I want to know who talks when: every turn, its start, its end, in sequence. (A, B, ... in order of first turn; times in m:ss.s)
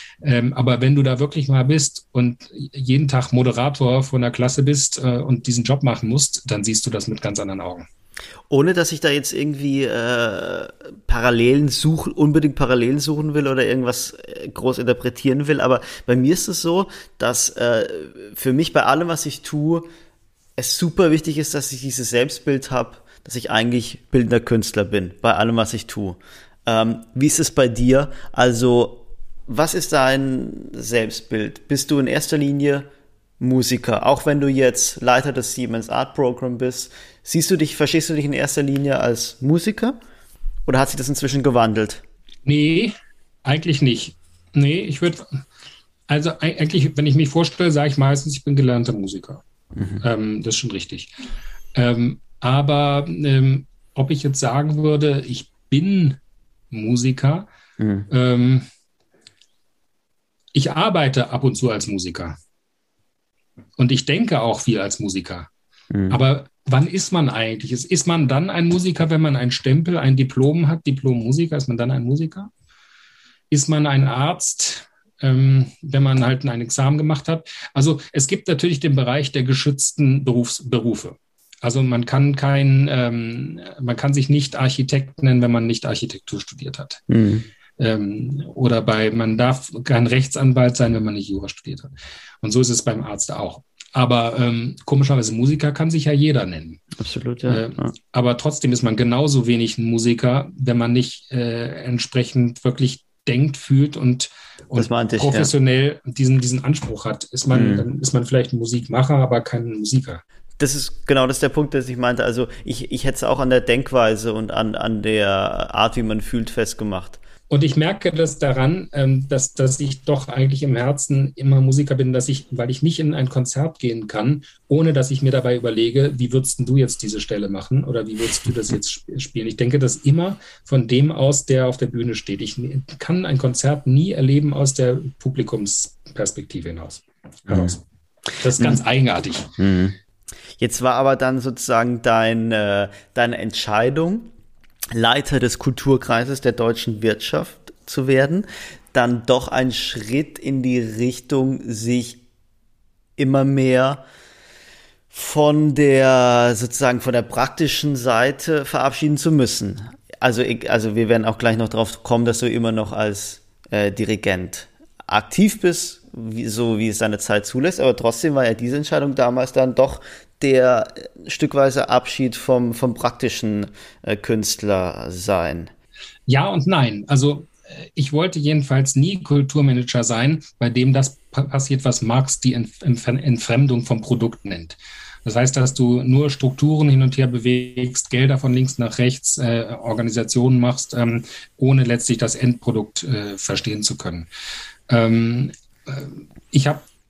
0:00.2-0:07.8 A
0:08.5-0:19.9 B
0:20.6-0:32.9 B
0:33.4-0:40.0 B
0:40.7-0:42.0 B
0:42.5-0:45.4 A
0:46.1-0:49.4 A
0:49.8-0:50.0 B
0:50.0-0:51.1 A
0:51.8-0:56.2 A
0:56.7-0:57.5 A
0:57.8-0:58.1 B
0:58.1-0:58.7 A
1:00.5-1:02.4 A
1:03.8-1:05.5 A
1:05.9-1:06.2 B
1:06.1-1:12.5 A
1:13.5-1:27.0 A
1:27.1-1:27.5 B
1:27.8-1:36.8 A
1:37.0-1:37.9 B
1:37.5-1:50.2 A
1:44.8-1:45.5 B
1:47.5-1:47.8 B
1:50.6-1:57.2 B
1:57.5-2:17.8 A
2:17.5-2:17.8 B
2:18.4-2:19.5 A
2:19.6-2:20.0 B
2:20.6-2:24.3 B
2:24.9-2:32.2 B
2:33.2-2:34.0 B
2:35.1-2:55.7 B
2:56.3-3:14.3 A
3:14.9-3:16.8 A